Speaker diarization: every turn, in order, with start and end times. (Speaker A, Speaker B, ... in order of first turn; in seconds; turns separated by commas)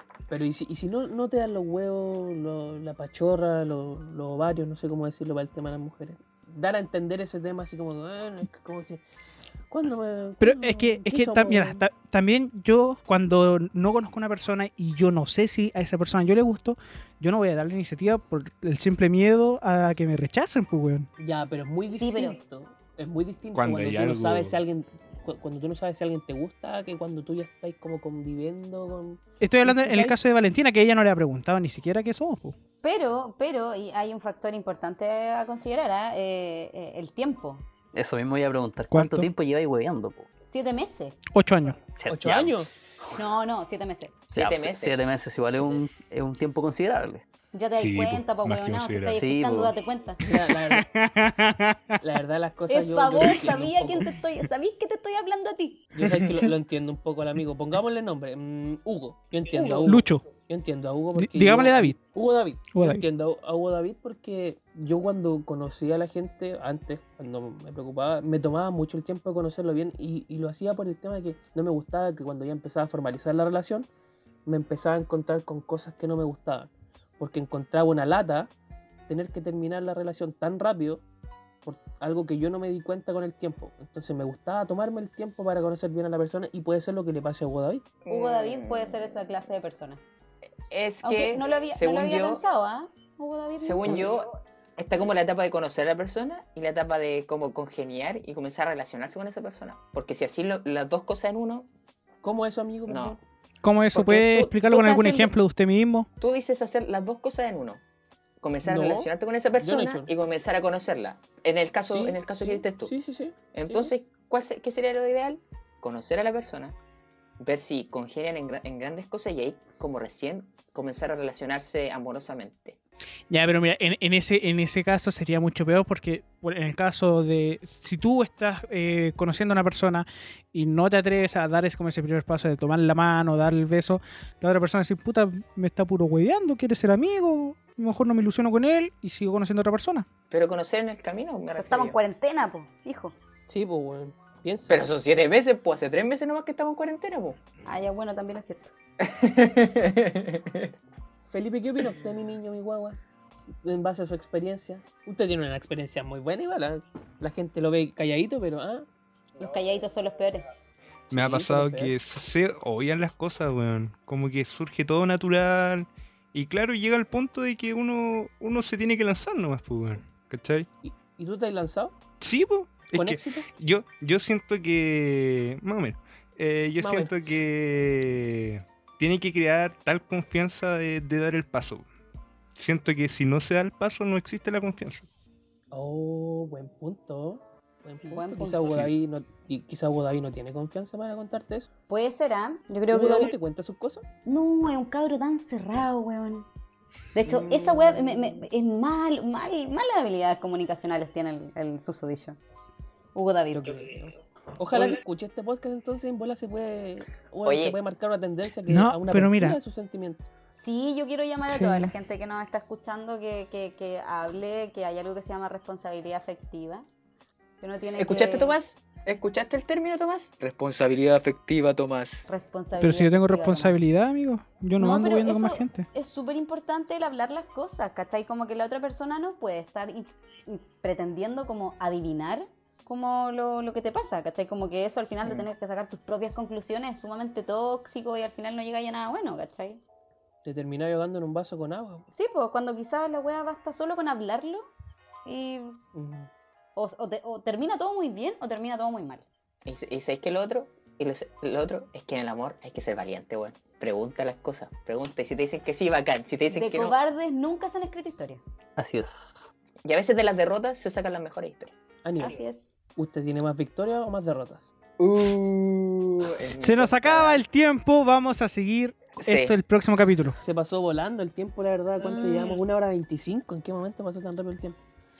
Speaker A: 0.3-9.0, Speaker A: 9.7-11.9, Speaker B: 10.4-21.1, Speaker A: 21.2-30.1, Speaker C: 21.9-22.4, Speaker D: 23.5-24.6, Speaker B: 29.4-32.5, Speaker C: 32.8-37.6, Speaker E: 37.9-40.3, Speaker B: 38.9-39.3, Speaker C: 40.5-41.2, Speaker B: 41.3-41.8, Speaker E: 41.9-42.6, Speaker A: 42.1-42.7, Speaker C: 43.1-44.1, Speaker E: 44.3-47.2, Speaker F: 44.3-45.0, Speaker C: 47.5-50.2, Speaker D: 47.8-49.2, Speaker E: 49.1-49.7, Speaker A: 50.2-50.9, Speaker B: 50.5-52.0, Speaker A: 52.0-54.1, Speaker C: 52.7-55.8, Speaker A: 55.9-73.9, Speaker C: 59.5-59.9, Speaker B: 59.8-60.2, Speaker B: 61.1-62.0, Speaker B: 62.7-63.0, Speaker A: 74.5-78.5, Speaker A: 79.1-81.0, Speaker A: 81.6-87.9, Speaker F: 88.0-89.1, Speaker C: 88.1-90.0, Speaker F: 90.7-92.4, Speaker C: 91.0-94.1, Speaker F: 93.6-101.7, Speaker A: 93.8-94.1, Speaker A: 102.2-103.2, Speaker F: 102.9-103.2, Speaker B: 103.6-106.1, Speaker F: 103.9-105.3, Speaker F: 106.2-107.8, Speaker F: 108.4-112.9, Speaker A: 108.6-110.1, Speaker A: 111.9-113.9, Speaker F: 113.5-116.7, Speaker F: 117.4-122.8, Speaker B: 123.3-140.1, Speaker F: 140.3-142.0, Speaker C: 141.6-143.1, Speaker A: 143.5-144.8, Speaker F: 144.7-147.4, Speaker C: 147.7-148.7, Speaker F: 149.0-150.7, Speaker A: 151.3-153.0, Speaker A: 153.6-158.8, Speaker C: 159.4-160.4, Speaker A: 161.1-161.9, Speaker D: 161.1-170.7, Speaker A: 170.8-171.9, Speaker D: 172.2-181.8, Speaker A: 172.9-173.5, Speaker A: 176.8-177.1, Speaker D: 182.6-185.1, Speaker A: 185.7-191.7, Speaker C: 188.0-188.7, Speaker C: 191.9-193.3, Speaker A: 192.9-194.0, Speaker C: 194.2-196.5, Speaker C: 197.1-202.4, Speaker A: 197.2-198.4, Speaker C: 203.1-203.8, Speaker A: 203.5-210.3, Speaker F: 207.4-207.8, Speaker B: 208.7-209.6, Speaker C: 210.6-216.8, Speaker B: 211.5-211.9, Speaker C: 217.6-218.6, Speaker F: 218.0-222.2, Speaker C: 222.3-223.8, Speaker B: 222.8-225.9, Speaker C: 224.8-239.8, Speaker A: 240.4-242.0, Speaker C: 242.1-244.7, Speaker C: 245.2-245.8, Speaker A: 245.9-246.3, Speaker C: 246.8-249.2, Speaker F: 249.7-256.9, Speaker C: 256.5-258.4, Speaker E: 258.8-259.5, Speaker F: 259.8-261.7, Speaker A: 262.0-262.4, Speaker C: 262.2-262.7, Speaker A: 262.9-264.7, Speaker F: 265.0-267.4, Speaker B: 266.6-270.4, Speaker F: 269.2-269.5, Speaker A: 270.4-274.8, Speaker C: 272.0-272.6